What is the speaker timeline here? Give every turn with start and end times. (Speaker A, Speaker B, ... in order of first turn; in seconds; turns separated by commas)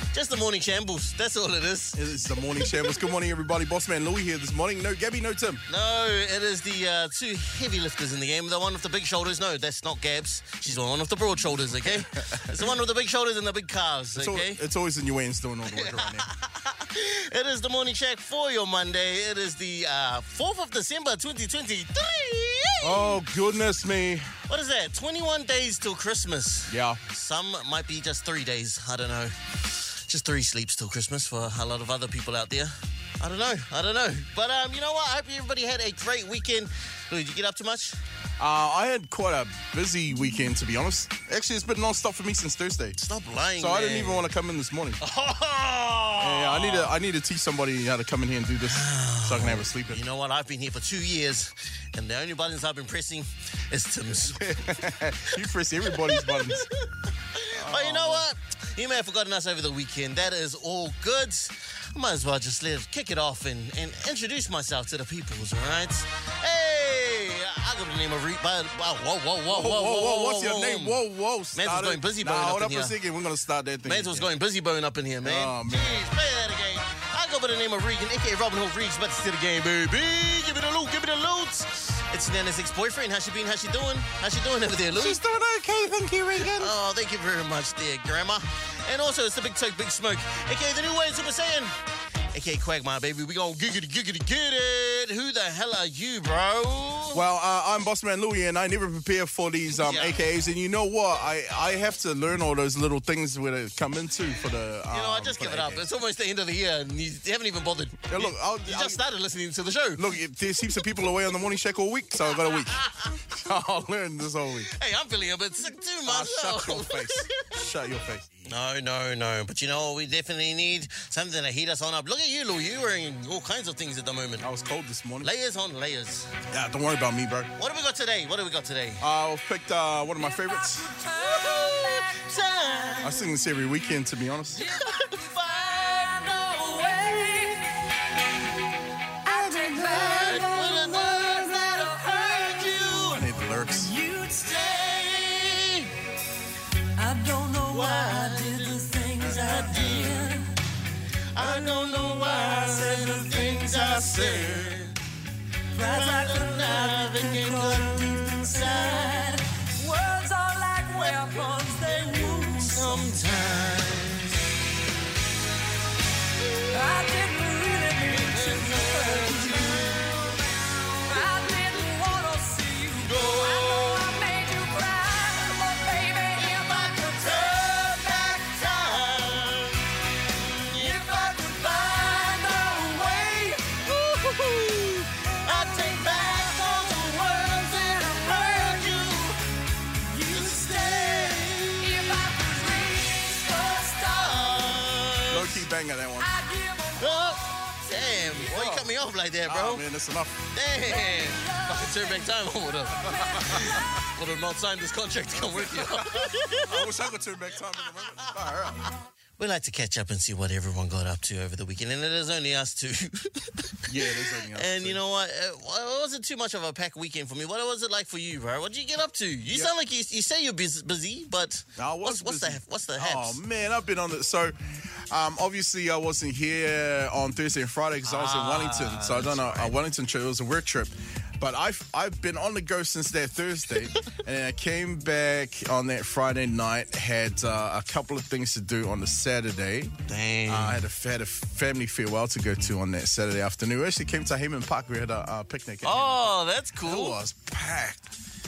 Speaker A: 0.1-3.0, Speaker B: 1.9-5.6, Speaker A: 5.7-14.6, Speaker B: 12.1-12.6, Speaker B: 14.2-16.3, Speaker A: 15.7-23.2, Speaker B: 22.8-24.4, Speaker A: 24.5-38.0, Speaker B: 26.7-27.0, Speaker B: 38.4-43.0, Speaker A: 43.0-44.3, Speaker B: 43.6-45.0, Speaker A: 45.0-46.9, Speaker B: 46.2-50.0, Speaker A: 48.6-54.6, Speaker B: 54.3-56.7, Speaker A: 55.9-71.0, Speaker B: 57.5-58.3, Speaker B: 69.5-74.3, Speaker A: 71.5-73.0, Speaker A: 73.8-85.2, Speaker B: 75.2-76.0, Speaker B: 84.9-86.7, Speaker A: 86.5-91.7, Speaker A: 92.3-97.2, Speaker B: 97.1-105.9, Speaker A: 99.8-100.2, Speaker A: 104.9-110.1, Speaker B: 108.1-109.0, Speaker B: 110.0-114.7, Speaker A: 112.5-113.2, Speaker A: 114.8-117.5, Speaker B: 116.1-118.5, Speaker A: 118.5-124.5, Speaker B: 124.4-125.3, Speaker A: 125.2-126.3, Speaker B: 126.5-127.5, Speaker A: 127.6-129.1, Speaker B: 129.0-131.0, Speaker C: 130.5-132.3, Speaker A: 131.0-133.3, Speaker B: 133.0-134.7, Speaker C: 134.6-137.6, Speaker A: 134.6-137.6, Speaker C: 139.2-142.9, Speaker A: 139.5-143.3, Speaker B: 143.1-143.9, Speaker C: 143.7-144.8, Speaker A: 144.3-145.9, Speaker C: 147.0-150.5, Speaker A: 147.7-150.4, Speaker A: 151.3-155.0, Speaker B: 153.5-154.8, Speaker C: 155.7-163.2, Speaker A: 155.8-159.5, Speaker A: 160.9-164.5, Speaker A: 166.5-167.0, Speaker C: 166.7-170.5, Speaker A: 168.0-170.4, Speaker C: 171.0-178.6, Speaker A: 173.0-174.2, Speaker A: 176.4-189.4, Speaker C: 180.6-183.8, Speaker C: 185.5-189.3, Speaker C: 190.0-191.2, Speaker A: 190.3-192.3, Speaker C: 191.8-194.9, Speaker A: 194.1-195.6, Speaker B: 195.3-196.3, Speaker C: 196.2-198.8, Speaker A: 197.0-199.8, Speaker B: 198.5-198.9, Speaker B: 199.4-200.5, Speaker A: 200.5-206.9, Speaker C: 200.9-204.1, Speaker B: 203.1-203.8, Speaker B: 205.6-208.9, Speaker A: 209.4-223.4, Speaker B: 213.9-215.0, Speaker B: 221.8-239.9, Speaker A: 228.0-229.8, Speaker A: 240.1-240.8, Speaker B: 240.5-248.1, Speaker A: 245.8-247.2